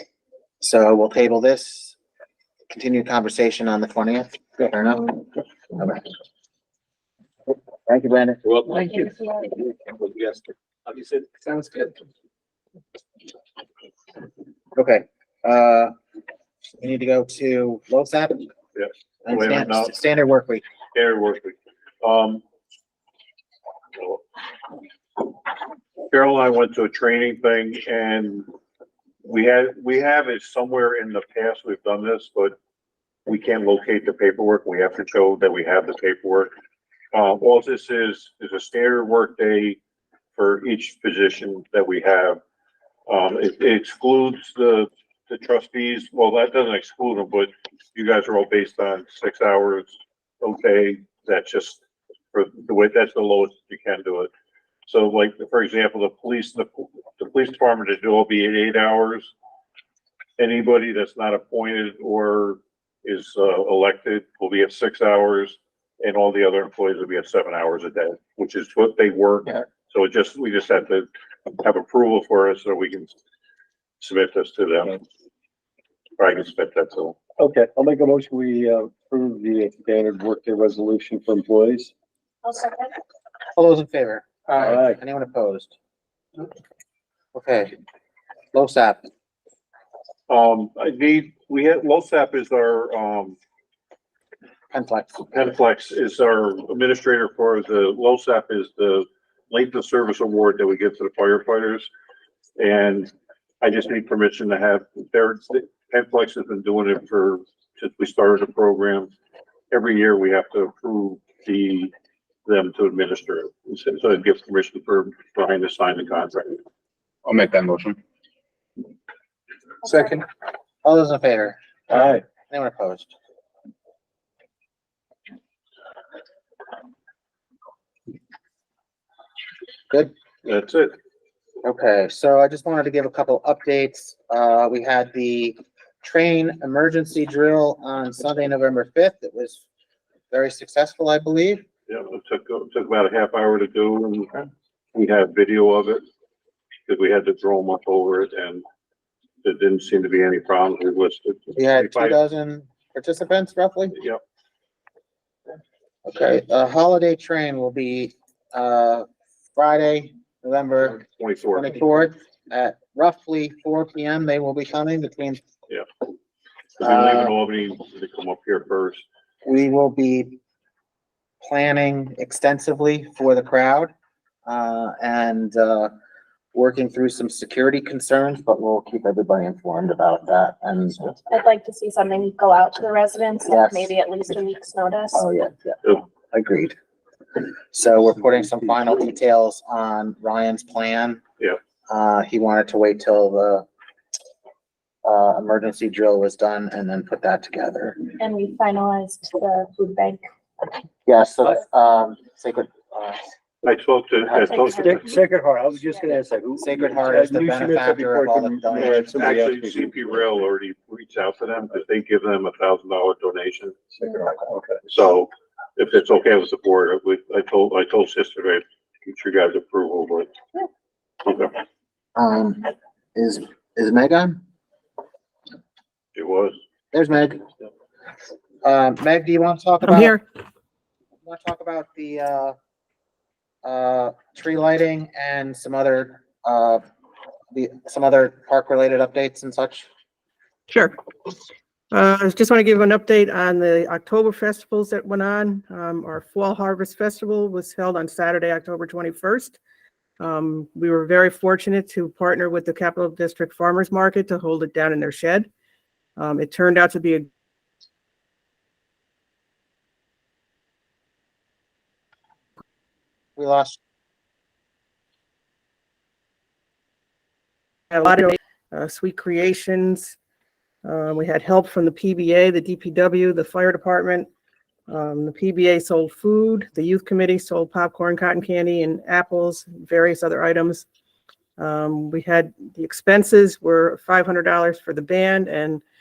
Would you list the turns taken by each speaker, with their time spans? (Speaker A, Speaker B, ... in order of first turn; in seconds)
Speaker A: 0.6-2.0, 2.7-6.1, 7.8-8.4, 14.8-15.9, 16.8-18.5, 19.2-20.6, 83.5-85.7, 87.3-87.7, 88.5-89.1, 94.7-95.4, 120.8-123.1, 131.6-139.6, 140.3-141.6, 151.6-153.9, 156.1-165.4, 166.8-167.3, 169.4-170.4, 171.4-173.9, 174.4-175.9, 176.5-181.2, 183.5-183.9, 185.1-186.7, 187.3-191.2, 191.9-193.6, 195.0-198.0, 201.1-203.2, 206.6-209.3, 222.2-224.4, 226.9-227.4, 228.6-230.2, 231.2-232.6, 233.6-236.8, 237.5-239.9, 263.4-263.8
Speaker B: 8.5-9.0, 9.9-10.4, 10.9-11.9
Speaker C: 8.9-9.4, 82.4-82.9, 181.3-185.2, 198.2-200.2, 204.4-205.2
Speaker D: 18.8-19.9, 20.9-22.4, 24.0-24.2, 26.1-28.5, 29.2-32.5, 33.3-36.5, 37.1-39.8, 40.3-42.4, 43.1-51.8, 52.3-54.3, 54.9-59.3, 60.4-71.1, 71.6-73.2, 74.0-75.0, 76.2-77.2, 90.3-93.4, 95.3-101.9, 102.6-109.1, 109.7-111.9, 112.5-116.6, 130.4-130.9, 141.9-146.0, 146.9-148.6, 149.4-152.2, 153.9-154.2, 161.0-161.8, 166.8-169.0, 203.6-204.9, 208.7-213.8, 214.8-220.3, 221.2-221.5, 226.1-226.6
Speaker E: 77.4-81.9, 84.6-85.0, 117.2-118.0, 119.8-120.2, 121.9-122.2, 204.6-210.2, 213.9-214.8
Speaker F: 229.8-230.2, 240.7-240.9, 241.9-249.6, 250.2-255.5, 256.2-257.3, 267.9-270.1, 270.8-274.3, 274.9-280.8, 281.6-285.8